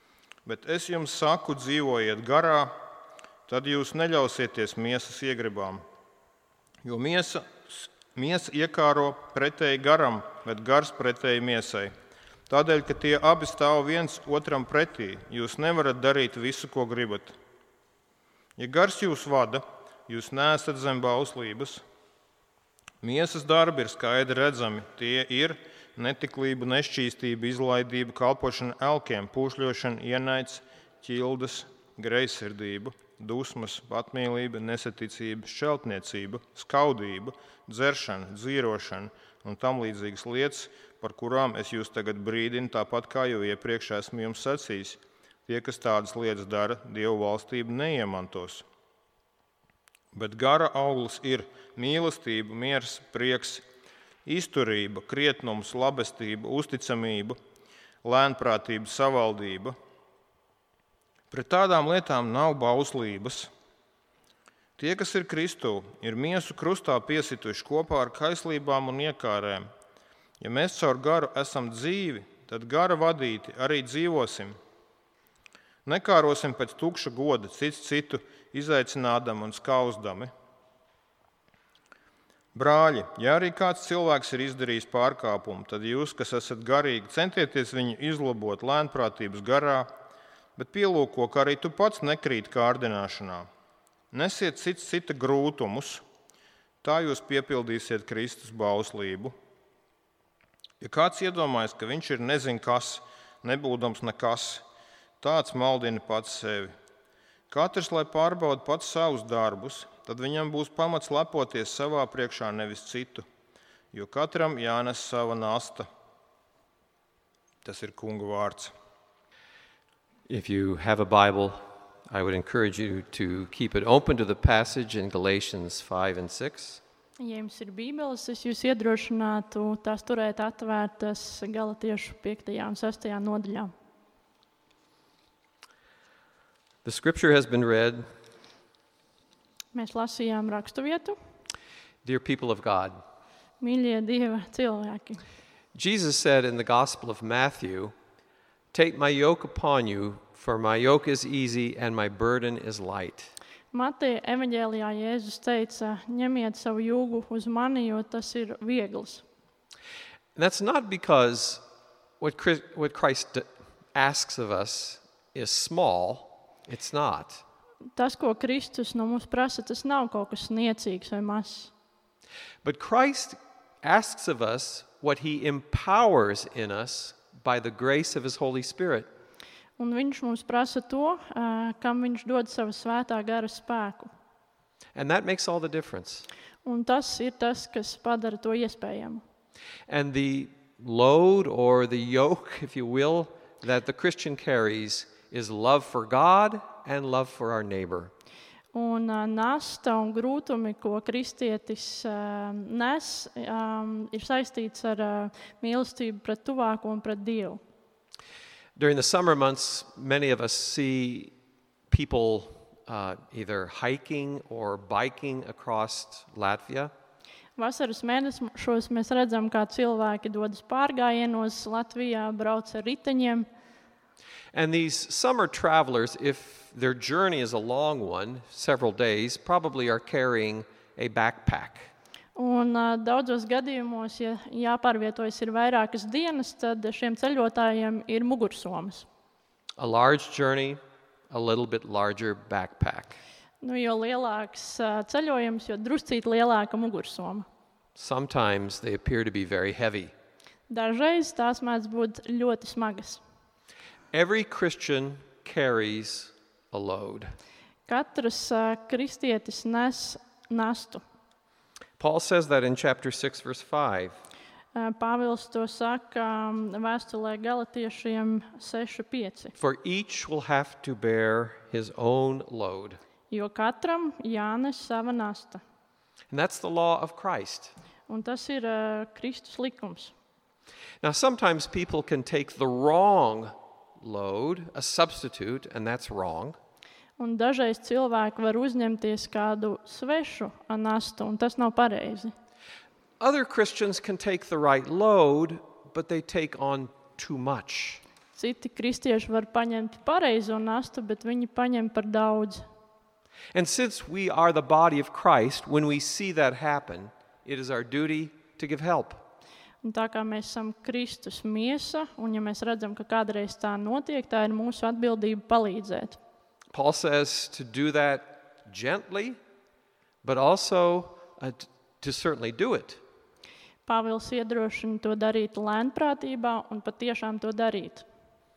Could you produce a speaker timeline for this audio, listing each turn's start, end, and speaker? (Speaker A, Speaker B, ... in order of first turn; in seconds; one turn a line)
Speaker A: 0.4-2.8
Speaker A: 3.5-5.8
Speaker A: 6.8-11.9
Speaker A: 12.5-17.3
Speaker A: 18.6-21.8
Speaker A: 23.0-48.6
Speaker A: 50.1-53.6
Speaker A: 54.2-57.4
Speaker A: 58.0-59.7
Speaker A: 61.3-63.5
Speaker A: 64.8-69.7
Speaker A: 70.4-74.5
Speaker A: 75.8-80.3
Speaker A: 82.5-89.9
Speaker A: 90.5-93.5
Speaker A: 94.1-96.0
Speaker A: 96.8-99.3
Speaker A: 100.8-104.6
Speaker A: 105.2-106.7
Speaker A: 107.5-113.2
Speaker A: 113.9-115.8
Speaker A: 117.6-118.7
Speaker B: 120.3-126.8
Speaker C: 127.2-133.7
Speaker B: 136.8-138.1
Speaker C: 139.7-141.2
Speaker B: 142.0-143.0
Speaker C: 143.6-145.2
Speaker B: 145.7-147.9
Speaker B: 148.7-153.3
Speaker C: 153.7-159.2
Speaker B: 160.3-161.6
Speaker B: 162.2-167.4
Speaker C: 167.9-171.7
Speaker B: 172.6-179.1
Speaker C: 179.8-184.1
Speaker B: 184.9-186.3
Speaker C: 186.6-189.2
Speaker B: 189.9-198.1
Speaker C: 198.7-207.6
Speaker B: 208.8-211.3
Speaker B: 211.9-216.9
Speaker C: 217.6-223.5
Speaker B: 224.5-231.9
Speaker C: 232.3-239.1
Speaker B: 239.8-240.8
Speaker B: 241.3-243.2
Speaker C: 243.6-247.4
Speaker B: 247.9-250.1
Speaker C: 250.7-253.2
Speaker B: 254.1-257.3
Speaker C: 257.9-261.0
Speaker B: 262.0-264.2
Speaker C: 264.7-269.5
Speaker B: 269.6-273.0
Speaker C: 273.3-275.6
Speaker B: 276.3-277.7
Speaker C: 278.1-280.1
Speaker B: 281.0-286.6
Speaker C: 287.2-292.3
Speaker B: 293.2-298.0
Speaker C: 298.3-302.6
Speaker B: 303.5-309.2
Speaker C: 309.8-316.2
Speaker B: 316.7-319.4
Speaker B: 320.2-323.0
Speaker C: 323.9-328.1